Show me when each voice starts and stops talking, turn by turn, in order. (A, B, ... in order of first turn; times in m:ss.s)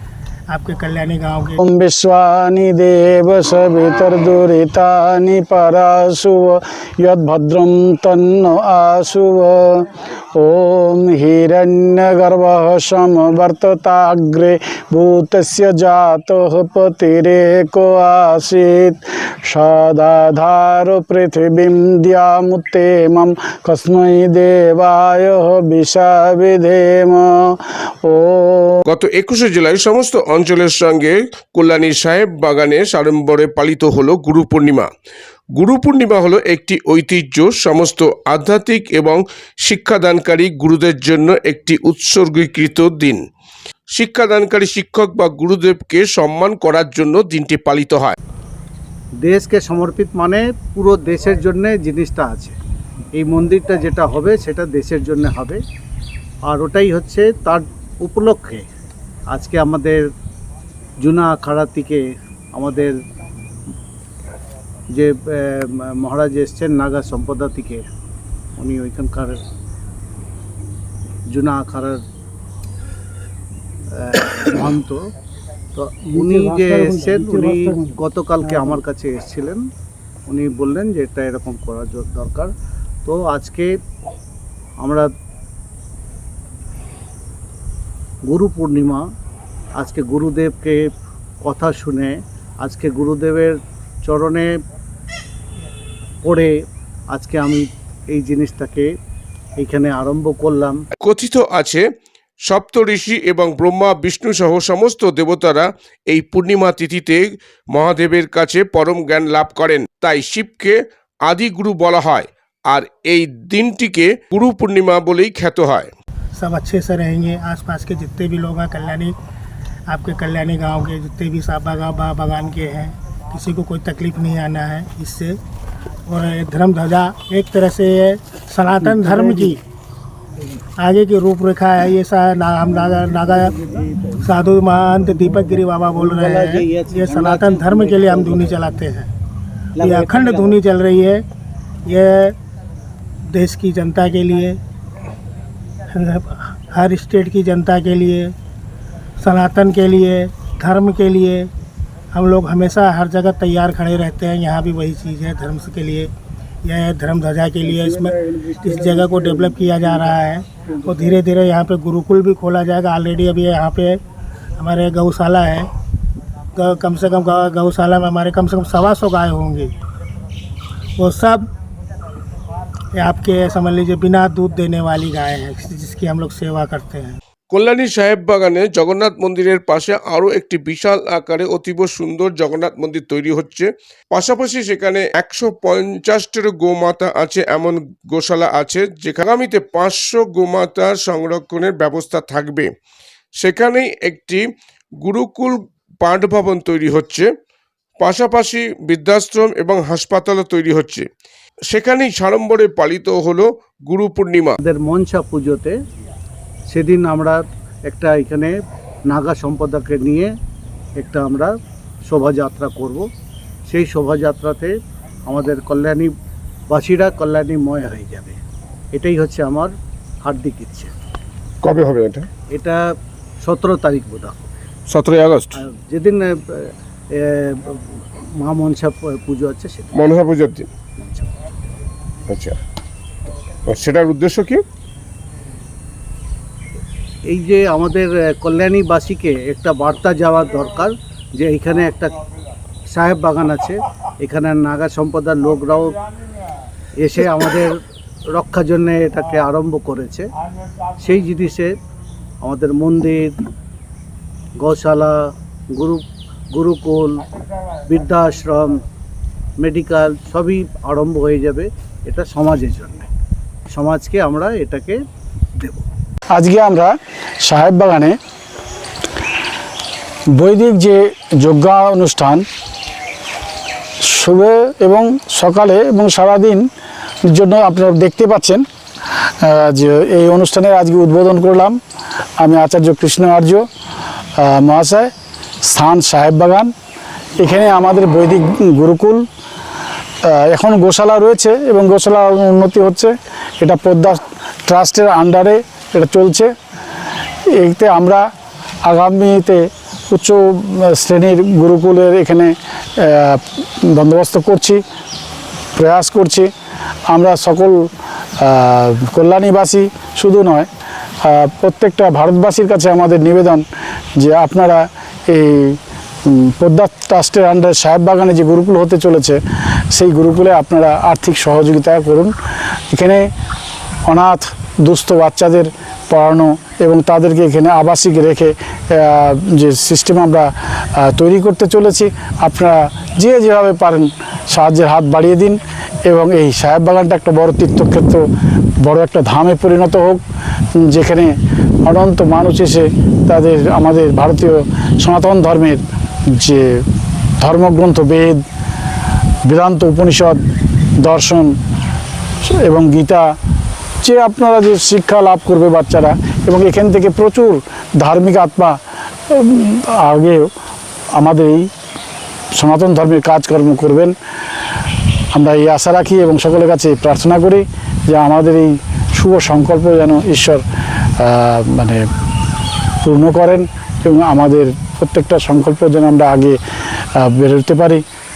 0:00.5-0:01.6 A
0:01.6-0:28.8 B
0:28.9-0:34.9 C
0:35.6-0:43.2 C
0:43.9-0:48.1 C
0:49.2-0:52.6 D
0:53.1-0:55.6 D
0:56.5-0:58.6 D
0:59.3-1:00.0 D
1:01.0-1:02.0 D
1:02.5-1:02.9 D
1:05.0-1:07.8 D
1:08.6-1:09.4 D
1:11.3-1:12.0 D
1:14.0-1:15.0 D
1:15.7-1:19.6 D
1:20.3-1:22.5 D
1:23.0-1:23.7 D
1:24.8-1:25.1 D
1:28.3-1:29.0 D
1:29.8-1:30.8 D
1:31.4-1:34.5 D
1:36.2-1:36.5 D
1:37.1-1:38.9 D
1:39.6-1:40.8 D
1:41.0-1:41.8 C
1:42.5-1:55.9 C
1:56.4-1:59.1 A
1:59.9-2:05.4 A
2:06.1-2:09.6 A
2:10.8-2:19.1 A
2:16.0-2:18.5 D
2:19.8-2:21.2 A
2:19.8-2:20.4 D
2:21.9-2:22.4 A
2:23.3-2:24.6 A
2:25.9-2:28.4 A
2:29.2-2:31.5 A
2:32.1-2:36.1 A
2:36.6-2:44.0 A
2:44.6-2:45.7 A
2:46.6-2:49.7 A
2:51.0-2:51.4 A
2:52.9-2:57.2 A
2:57.5-3:12.7 C
3:13.4-3:14.4 C
3:15.0-3:17.2 C
3:18.0-3:21.1 C
3:21.7-3:24.6 C
3:24.6-3:25.8 D
3:26.7-3:28.5 D
3:29.1-3:30.3 D
3:31.0-3:31.6 D
3:32.1-3:33.1 D
3:33.7-3:36.1 D
3:36.7-3:38.4 D
3:38.9-3:40.9 D
3:41.6-3:42.3 C
3:42.5-3:42.8 D
3:43.4-3:44.5 D
3:44.9-3:45.6 C
3:45.6-3:49.9 D
3:49.9-3:50.7 C
3:51.0-3:51.3 D
3:52.3-3:52.6 C
3:53.7-3:54.6 C
3:57.3-4:02.2 D
4:02.9-4:06.0 D
4:07.0-4:10.3 D
4:11.0-4:11.7 D
4:12.4-4:13.4 D
4:14.6-4:15.2 D
4:15.7-4:17.2 D
4:17.9-4:18.8 D
4:19.6-4:23.1 D
4:23.7-4:25.0 D
4:25.6-4:25.9 D
4:26.3-4:28.2 B
4:30.4-4:32.4 B
4:34.0-4:36.7 B
4:37.3-4:41.8 B
4:42.4-4:43.6 B
4:44.4-4:45.1 B
4:45.6-4:46.7 B
4:47.4-4:49.2 B
4:50.2-4:56.5 B
4:57.6-4:58.2 B
4:58.8-5:04.8 B
5:05.8-5:06.5 B
5:07.1-5:07.9 B
5:08.4-5:10.7 B
5:11.2-5:13.6 B
5:14.2-5:23.3 B
5:24.1-5:38.3 B
5:38.8-5:40.2 B
5:40.8-5:46.8 B
5:47.4-5:48.4 B
5:49.4-5:50.4 B
5:51.0-5:51.5 B
5:52.4-5:53.3 B
5:54.0-6:00.5 B
6:01.1-6:01.7 B
6:02.6-6:04.2 B
6:05.3-6:12.0 B
6:13.0-6:16.6 B
6:17.2-6:18.0 B